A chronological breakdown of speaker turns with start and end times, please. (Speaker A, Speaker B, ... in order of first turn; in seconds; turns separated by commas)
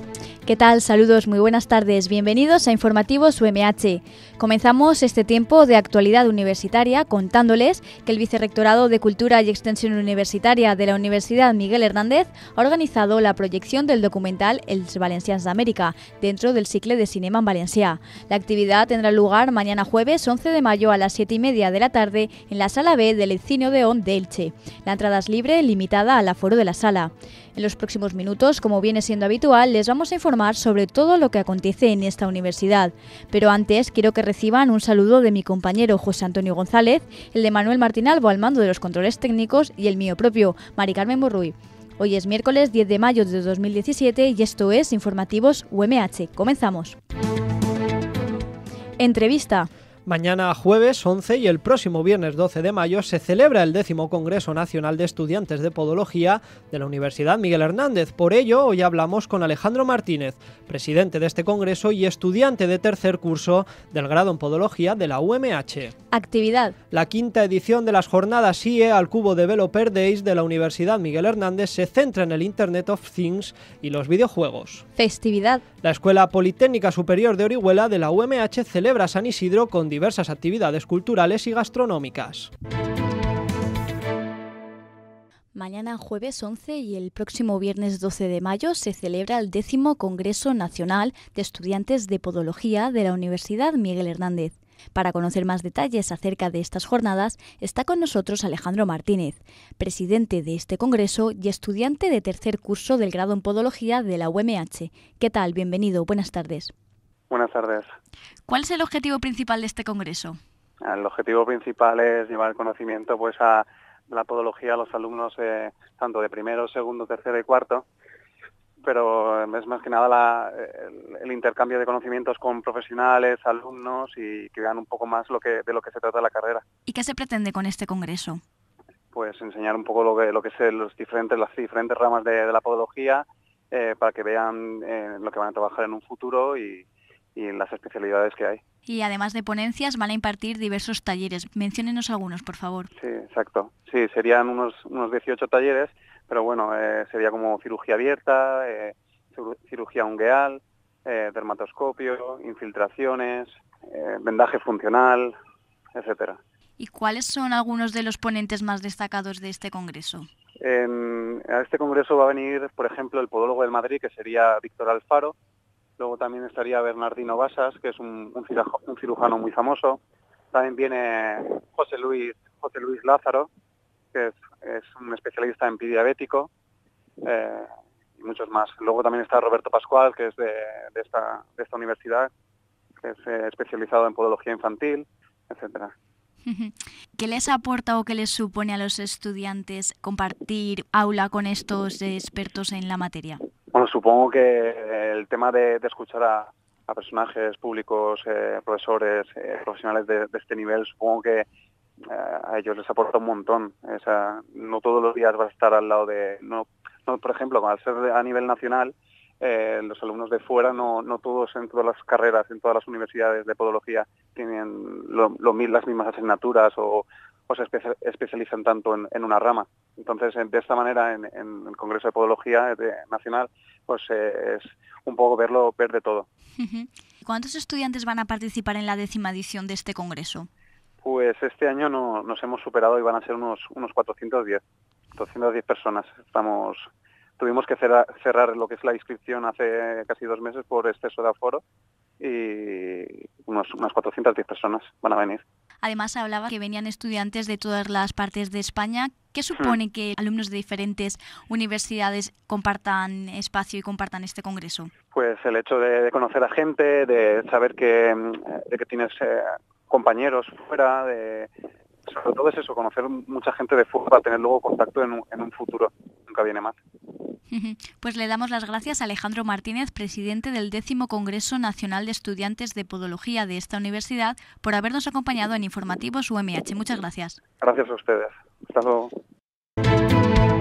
Speaker A: 0.5-47.0, Speaker A: 49.0-49.7, Speaker B: 50.1-65.9, Speaker A: 66.1-66.8, Speaker B: 66.9-74.8, Speaker A: 75.0-75.6, Speaker B: 75.8-82.5, Speaker A: 85.5-106.7, Speaker C: 107.3-107.9, Speaker A: 108.5-110.4, Speaker C: 110.8-117.8, Speaker C: 118.8-126.6, Speaker A: 126.9-128.4, Speaker C: 129.1-138.6, Speaker A: 138.9-142.9, Speaker C: 142.9-155.4, Speaker C: 155.9-156.4, Speaker A: 156.8-160.3, Speaker C: 160.6-165.3, Speaker C: 166.0-170.0, Speaker C: 170.5-173.5, Speaker C: 174.1-176.5, Speaker C: 177.2-182.3, Speaker C: 183.0-185.9, Speaker A: 186.5-193.4, Speaker C: 193.7-201.5, Speaker C: 202.1-226.3, Speaker A: 226.6-230.5, Speaker C: 231.0-234.6, Speaker C: 235.1-241.6, Speaker C: 242.2-245.4, Speaker A: 245.8-254.9, Speaker C: 255.1-261.5, Speaker C: 262.1-266.8, Speaker A: 267.5-277.4, Speaker C: 277.6-279.1